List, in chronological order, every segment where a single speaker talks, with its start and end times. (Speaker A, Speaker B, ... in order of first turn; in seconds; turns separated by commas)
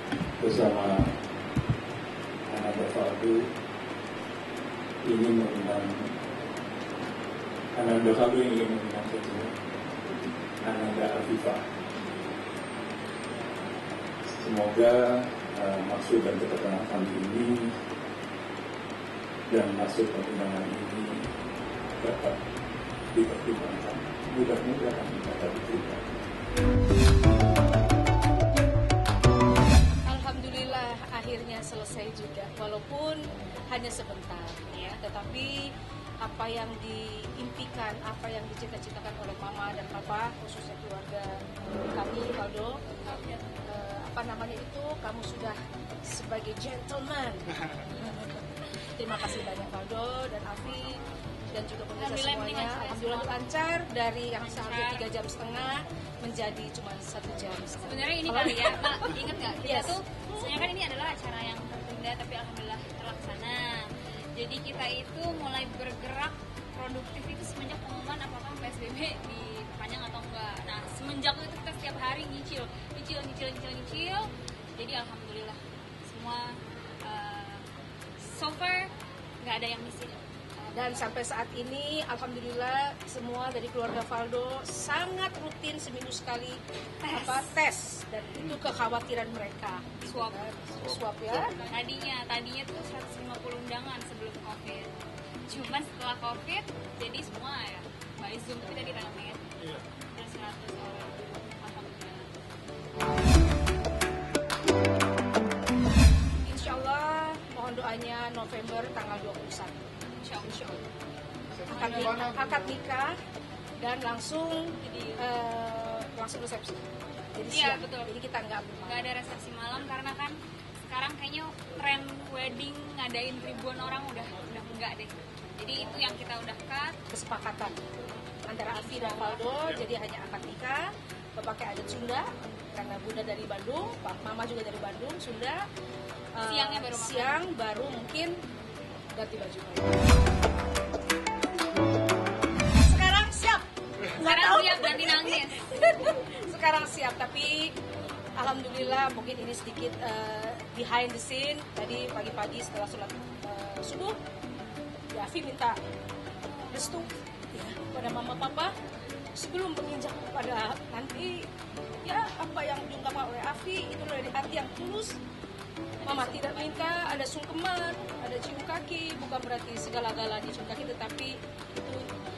Speaker A: 0.4-1.2, Speaker A: 2.5-3.5, Speaker A: 5.0-6.2, Speaker A: 7.7-9.6, Speaker A: 10.6-11.7, Speaker A: 14.2-17.8, Speaker A: 19.5-21.3, Speaker A: 22.0-22.4, Speaker A: 23.1-26.1, Speaker B: 30.1-33.2, Speaker B: 33.7-35.7, Speaker C: 34.7-35.0, Speaker B: 36.2-42.8, Speaker C: 43.0-43.5, Speaker B: 43.6-60.7, Speaker C: 52.0-53.4, Speaker C: 54.4-55.1, Speaker C: 57.8-77.6, Speaker C: 78.2-81.1, Speaker B: 80.7-91.6, Speaker C: 87.0-87.5, Speaker C: 90.0-90.4, Speaker C: 91.5-95.0, Speaker C: 95.5-99.4, Speaker C: 100.1-102.5, Speaker B: 106.4-109.7, Speaker C: 110.2-110.8, Speaker C: 111.7-112.6, Speaker B: 111.7-113.2, Speaker B: 113.8-116.8, Speaker C: 114.8-115.3, Speaker B: 117.3-119.1, Speaker C: 117.5-118.1, Speaker C: 118.8-127.0, Speaker B: 127.1-127.8, Speaker B: 128.5-135.6, Speaker C: 128.7-129.5, Speaker B: 136.4-138.4, Speaker C: 136.4-137.4, Speaker B: 139.1-140.0, Speaker B: 142.8-147.7, Speaker C: 144.2-145.7, Speaker B: 148.4-154.2, Speaker B: 155.1-155.8, Speaker C: 156.5-157.1, Speaker B: 156.7-158.7, Speaker B: 159.3-161.5, Speaker B: 162.0-165.2, Speaker C: 166.0-166.9, Speaker B: 166.1-172.1